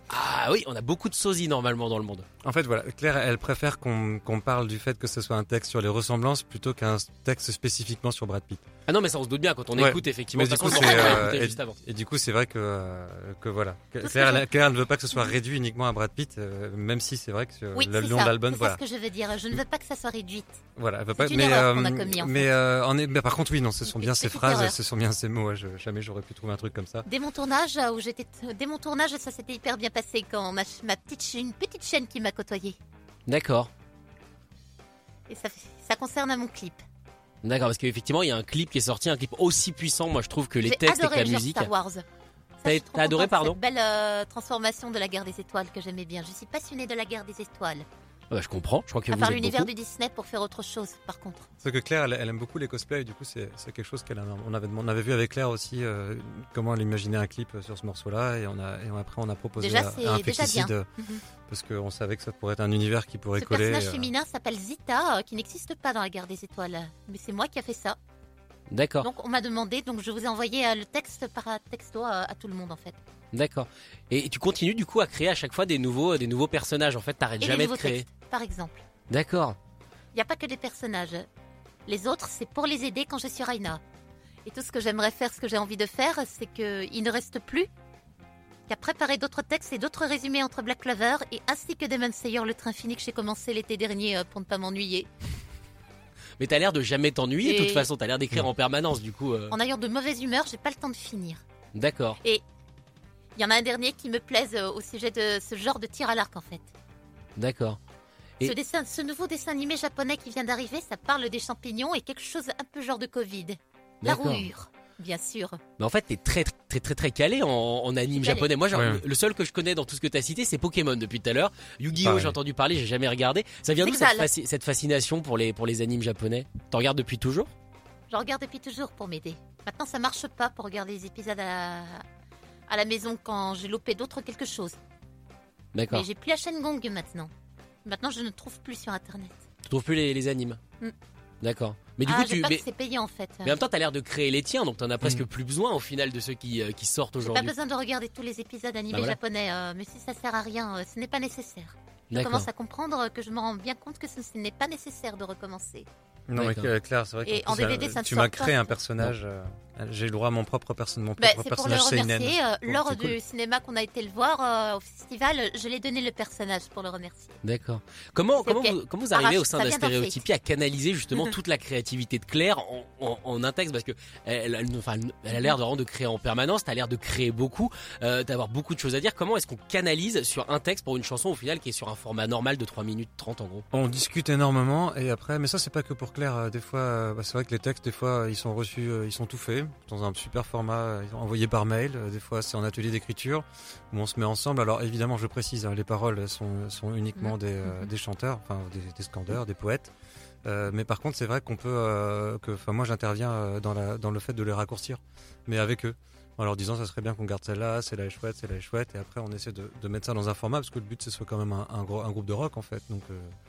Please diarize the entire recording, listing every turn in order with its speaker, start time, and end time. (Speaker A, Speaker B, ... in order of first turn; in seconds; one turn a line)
Speaker A: 0.1-2.2
Speaker B: 2.4-8.7
Speaker A: 8.9-11.8
Speaker B: 9.8-18.8
Speaker C: 10.7-11.2
Speaker C: 14.0-14.4
Speaker C: 17.7-20.6
Speaker B: 20.8-27.1
Speaker C: 21.1-22.5
Speaker C: 23.9-24.8
Speaker C: 27.1-32.8
Speaker A: 33.3-33.7
Speaker C: 35.3-36.8
Speaker A: 37.4-41.7
Speaker C: 40.6-42.0
Speaker C: 42.6-47.9
Speaker A: 42.6-43.6
Speaker A: 48.3-49.7
Speaker C: 49.1-51.5
Speaker B: 51.6-60.9
Speaker C: 59.6-61.2
Speaker B: 61.5-64.1
Speaker C: 63.4-68.0
Speaker A: 68.7-69.1
Speaker C: 69.0-73.0
Speaker A: 73.3-78.0
Speaker C: 77.4-78.8
Speaker A: 79.1-79.6
Speaker C: 80.1-81.3
Speaker C: 81.9-83.8
Speaker C: 84.4-87.7
Speaker C: 88.7-95.1
Speaker A: 96.4-99.5
Speaker C: 97.4-97.9
Speaker C: 99.5-101.4
Speaker A: 101.7-102.2
Speaker C: 103.3-106.7
Speaker A: 107.4-107.8
Speaker C: 108.4-115.6
Speaker A: 114.0-114.5
Speaker A: 115.8-127.5
Speaker C: 118.1-118.5
Speaker B: 118.7-119.0
Speaker B: 122.0-122.4
Speaker C: 123.8-124.3
Speaker C: 128.1-132.0
Speaker C: 132.7-134.8
Speaker A: 135.7-136.1
Speaker C: 135.9-137.3
Speaker C: 137.8-139.4
Speaker A: 139.7-140.6
Speaker A: 141.4-142.6
Speaker C: 142.1-143.6
Speaker A: 143.4-147.5
Speaker C: 147.2-155.9
Speaker A: 152.1-152.5
Speaker B: 156.3-163.2
Speaker A: 156.3-156.7
Speaker C: 157.2-158.8
Speaker C: 161.2-167.4
Speaker A: 167.4-183.6
Speaker C: 168.4-170.2
Speaker B: 183.7-199.9
Speaker C: 197.2-197.9
Speaker B: 200.4-213.3